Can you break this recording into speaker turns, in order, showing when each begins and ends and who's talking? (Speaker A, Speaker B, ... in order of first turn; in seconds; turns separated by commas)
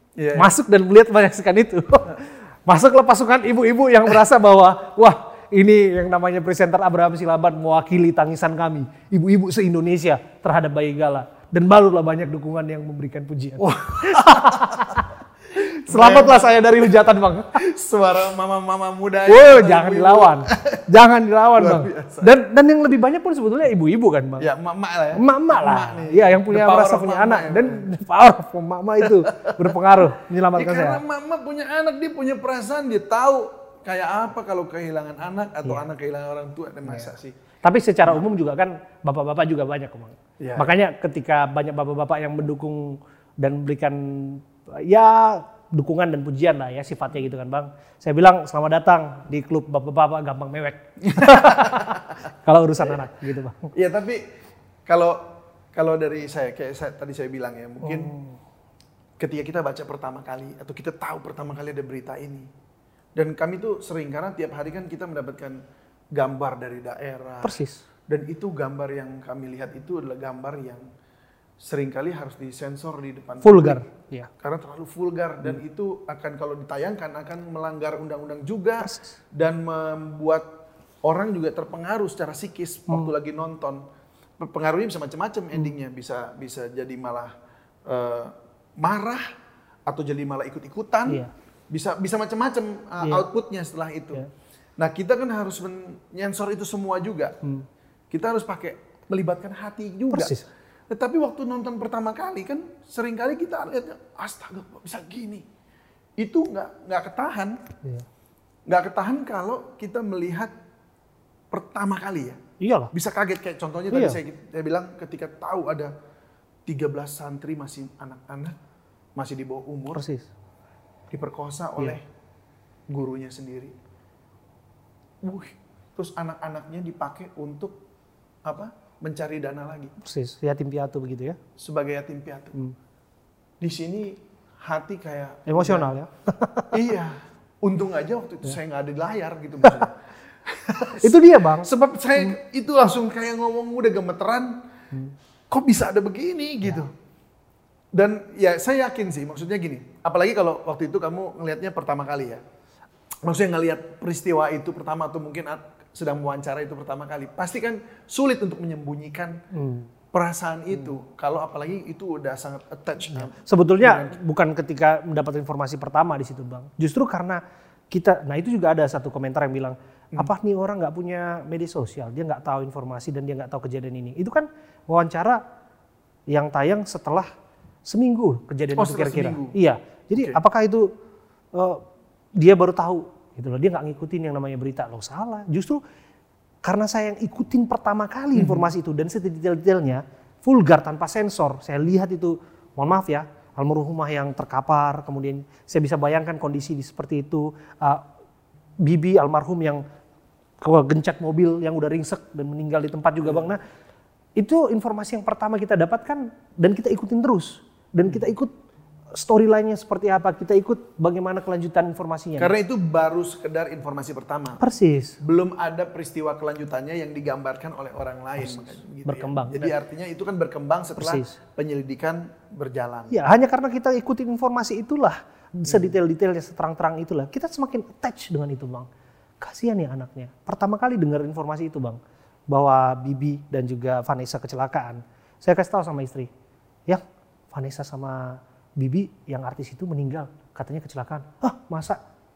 Speaker A: 0.2-0.5, Speaker B: 0.3-17.6, Speaker A: 13.6-15.0, Speaker A: 15.9-16.6, Speaker A: 17.6-20.8, Speaker B: 19.3-24.5, Speaker A: 21.6-22.3, Speaker A: 24.4-27.9, Speaker B: 25.1-31.0, Speaker A: 29.0-29.8, Speaker A: 30.5-37.4, Speaker B: 37.6-53.7, Speaker A: 40.4-40.7, Speaker A: 51.1-52.0, Speaker A: 53.7-54.2, Speaker A: 54.9-58.1, Speaker B: 57.8-58.4, Speaker A: 59.2-62.5, Speaker A: 63.1-65.6, Speaker A: 66.1-67.6, Speaker B: 67.4-67.8, Speaker A: 68.1-70.9, Speaker A: 71.6-73.8, Speaker B: 73.4-74.3, Speaker A: 74.4-80.5, Speaker B: 78.8-79.1, Speaker A: 81.0-83.8, Speaker A: 84.4-87.3, Speaker A: 87.9-89.2, Speaker A: 89.9-94.2, Speaker B: 93.0-93.3, Speaker A: 94.8-97.4, Speaker A: 98.1-100.3, Speaker B: 100.1-100.5, Speaker A: 100.9-105.4, Speaker A: 106.2-107.6, Speaker A: 108.7-110.5, Speaker A: 111.5-112.4, Speaker B: 112.6-112.9, Speaker A: 112.9-115.9, Speaker B: 113.9-114.2, Speaker A: 116.7-118.6, Speaker A: 119.2-120.0, Speaker B: 119.9-120.3, Speaker A: 121.1-122.0, Speaker A: 122.9-123.8, Speaker A: 125.2-127.8, Speaker A: 128.4-129.9, Speaker B: 130.0-131.4, Speaker A: 131.6-132.6, Speaker A: 133.6-135.9, Speaker B: 135.5-136.8, Speaker A: 136.7-144.6, Speaker B: 140.8-142.3, Speaker A: 145.5-146.9, Speaker A: 147.9-152.4, Speaker A: 153.2-159.4, Speaker B: 159.5-159.9, Speaker A: 160.1-164.2, Speaker B: 163.1-167.4, Speaker B: 167.9-175.4, Speaker B: 176.3-177.3, Speaker B: 177.9-180.9, Speaker A: 178.8-179.6, Speaker B: 181.5-181.8, Speaker B: 182.4-185.8, Speaker B: 186.6-198.0, Speaker A: 188.3-188.6, Speaker B: 198.8-199.8, Speaker B: 200.6-203.6, Speaker B: 204.4-208.5, Speaker B: 209.1-212.5, Speaker A: 212.4-214.6, Speaker B: 214.6-215.2, Speaker A: 215.2-223.2, Speaker B: 218.5-219.7, Speaker B: 221.0-221.3, Speaker B: 223.1-228.9, Speaker A: 225.7-225.9, Speaker B: 229.4-232.0, Speaker B: 232.5-236.3, Speaker B: 236.9-242.0